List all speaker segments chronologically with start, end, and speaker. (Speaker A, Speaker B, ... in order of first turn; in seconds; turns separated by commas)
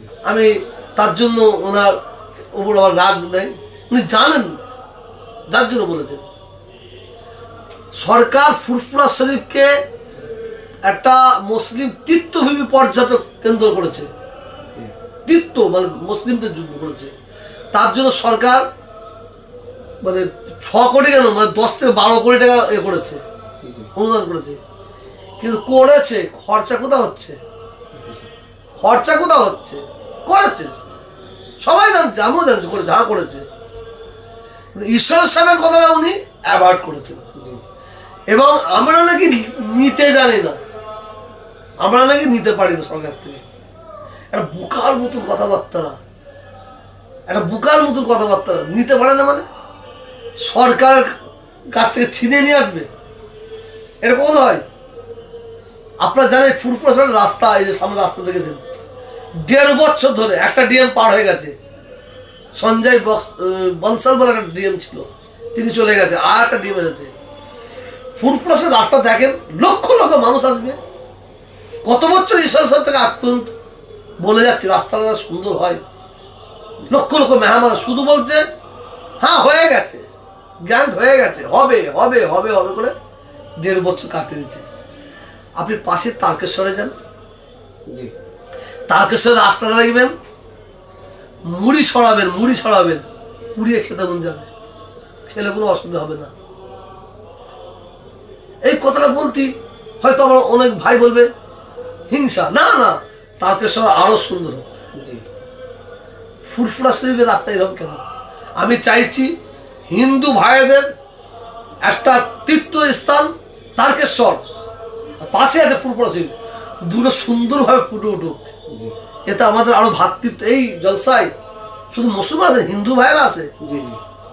Speaker A: 0.2-2.0, Speaker A: 2.5-4.7, Speaker A: 5.5-6.2, Speaker A: 7.9-9.7, Speaker A: 10.8-14.1, Speaker A: 15.3-17.1, Speaker A: 17.7-18.6, Speaker A: 20.0-23.2, Speaker B: 23.6-23.9, Speaker A: 23.9-24.6, Speaker A: 25.4-27.4, Speaker B: 27.9-28.3, Speaker A: 28.8-30.8, Speaker A: 31.6-33.5, Speaker A: 34.7-37.2, Speaker B: 37.4-37.6, Speaker A: 38.3-40.6, Speaker A: 41.8-43.4, Speaker A: 44.3-46.0, Speaker A: 47.3-49.5, Speaker A: 50.4-51.1, Speaker A: 51.7-52.9, Speaker A: 54.0-54.6, Speaker A: 56.0-58.6, Speaker A: 59.4-61.5, Speaker A: 62.5-67.1, Speaker A: 68.2-70.8, Speaker A: 71.8-73.5, Speaker A: 74.2-75.8, Speaker A: 76.9-78.4, Speaker A: 79.2-80.0, Speaker A: 80.6-82.9, Speaker A: 83.6-84.6, Speaker A: 85.6-86.9, Speaker A: 88.9-90.1, Speaker A: 91.5-93.0, Speaker A: 93.6-94.5, Speaker A: 95.3-96.3, Speaker A: 98.6-101.3, Speaker A: 102.1-104.7, Speaker B: 105.0-105.2, Speaker A: 106.5-108.0, Speaker A: 108.6-109.3, Speaker A: 109.9-110.9, Speaker A: 111.8-114.5, Speaker A: 115.2-118.5, Speaker B: 118.7-118.9, Speaker A: 119.3-121.3, Speaker A: 121.9-123.5, Speaker B: 123.6-124.0